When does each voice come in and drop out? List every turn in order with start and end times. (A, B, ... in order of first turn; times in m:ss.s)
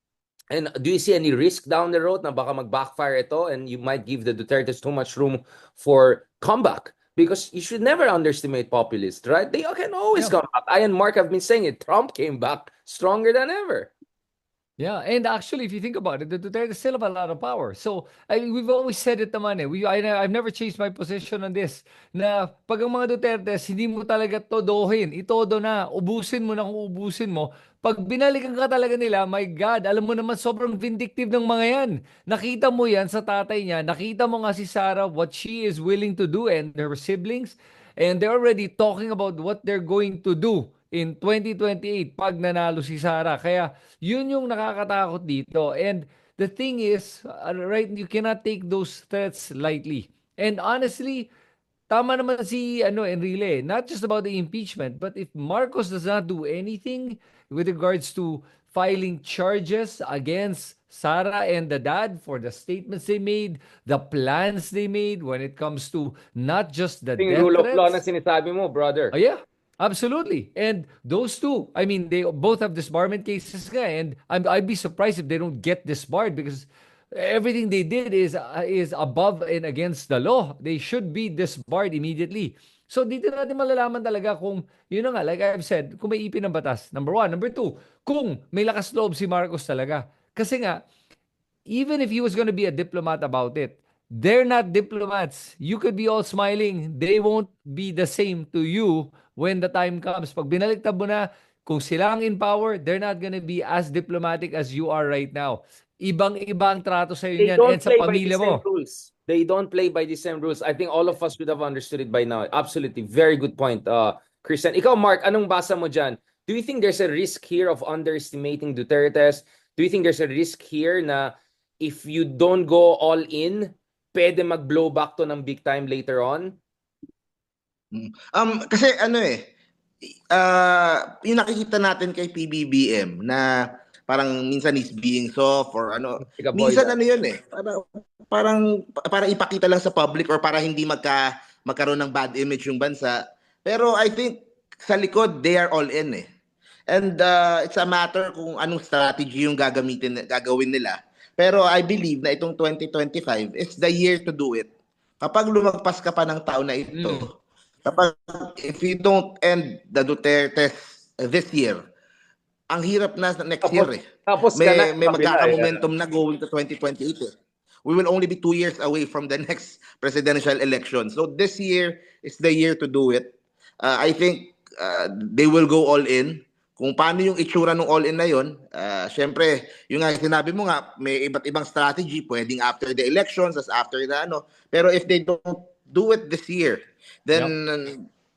0:00.5-0:13.9 A
0:14.8-0:51.3 B
0:51.9-1:08.0 B
1:07.2-1:09.2 A
1:09.1-1:30.8 B
1:31.7-1:48.6 B
1:47.4-2:06.6 A
2:07.9-2:09.4 C
2:10.3-2:13.5 C
2:14.1-2:26.2 C
2:16.2-2:17.0 A
2:26.9-2:34.7 C
2:35.2-2:37.3 C
2:36.9-2:37.2 B
2:37.9-2:41.8 C
2:42.7-2:44.0 C
2:43.6-2:45.8 A
2:44.6-2:47.3 C
2:47.9-3:08.0 C